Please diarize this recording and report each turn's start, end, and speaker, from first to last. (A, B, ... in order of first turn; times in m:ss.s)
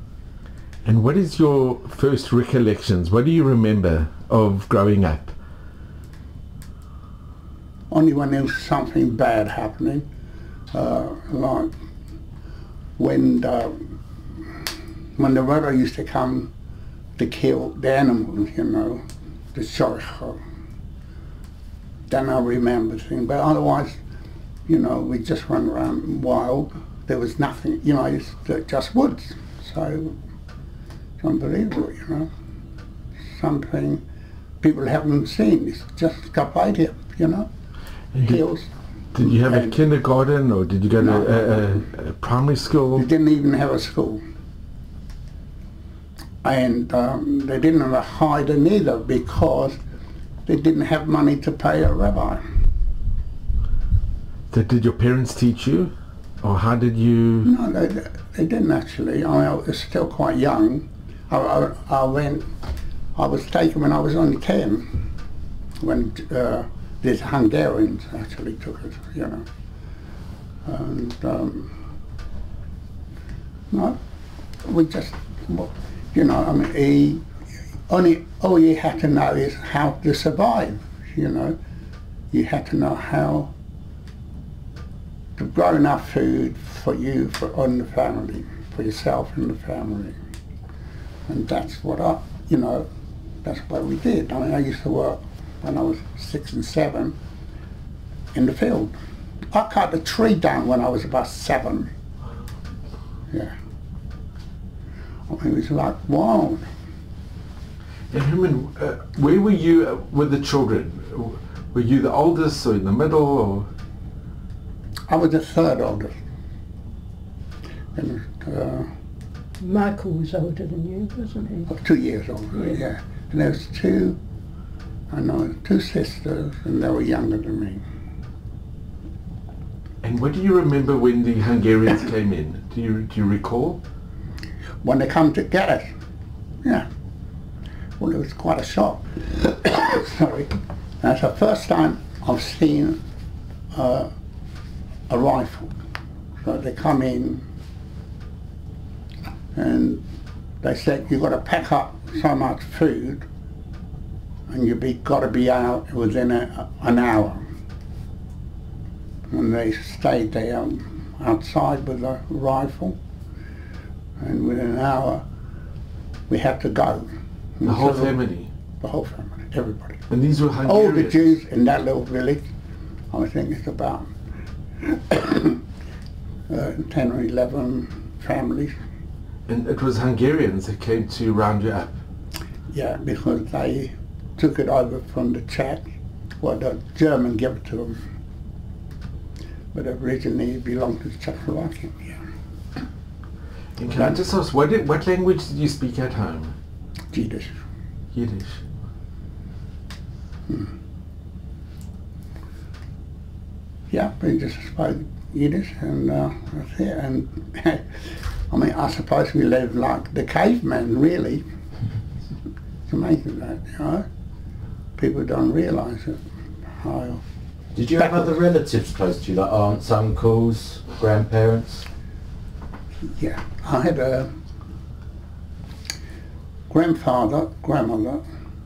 0:00.8-0:05.4 A
0:07.9-0:10.1 B
0:10.7-0:11.7 B
0:13.0-0:13.9 B
0:15.2-0:16.5 B
0:17.2-0:20.4 B
0:22.1-0:24.0 B
0:24.7-0:30.2 B
0:31.2-0:32.3 B
0:33.3-0:34.0 B
0:34.6-0:37.5 B
0:38.1-0:38.4 A
0:38.2-0:38.7 B
0:39.1-0:43.1 A
0:39.2-0:39.8 B
0:41.0-0:41.8 B
0:43.0-0:44.2 B
0:46.4-0:49.8 B
0:50.5-0:52.4 B
0:54.5-0:57.5 A
0:57.4-1:02.5 B
1:03.2-1:05.1 B
1:05.8-1:09.5 B
1:10.6-1:11.8 B
1:13.7-1:14.0 B
1:14.6-1:17.3 B
1:17.9-1:21.6 B
1:22.3-1:23.5 B
1:25.4-1:30.2 B
1:31.3-1:32.9 B
1:33.4-1:37.2 B
1:38.3-1:39.0 B
1:39.5-1:41.9 B
1:45.3-1:46.7 B
1:48.1-1:53.7 A
1:55.1-1:56.2 B
1:58.0-1:58.9 B
1:59.6-2:01.7 C
2:01.7-2:04.2 B
2:05.1-2:07.8 B
2:10.0-2:13.8 A
2:14.8-2:15.9 B
2:16.6-2:16.9 B
2:18.0-2:23.0 B
2:23.7-2:24.1 B
2:25.1-2:25.7 B
2:26.4-2:27.4 B
2:29.6-2:30.0 B
2:30.6-2:33.3 B
2:34.5-2:37.4 B
2:39.3-2:43.0 B
2:44.2-2:45.2 B
2:46.3-2:48.2 B
2:47.6-2:48.5 A
2:48.8-2:50.0 B
2:50.1-2:51.2 A
2:50.6-2:52.5 B
2:53.1-2:54.1 B
2:54.8-2:55.6 B
2:56.5-2:58.8 B
2:59.5-3:02.0 A
3:02.7-3:05.9 B
3:06.4-3:08.0 B
3:09.7-3:12.2 B
3:13.8-3:16.6 A
3:17.1-3:17.6 B
3:18.1-3:18.6 A
3:23.9-3:31.4 B
3:32.9-3:34.1 B
3:35.0-3:37.2 B
3:37.8-3:41.9 D
3:38.0-3:38.4 B
3:43.0-3:44.3 B
3:46.7-3:48.2 B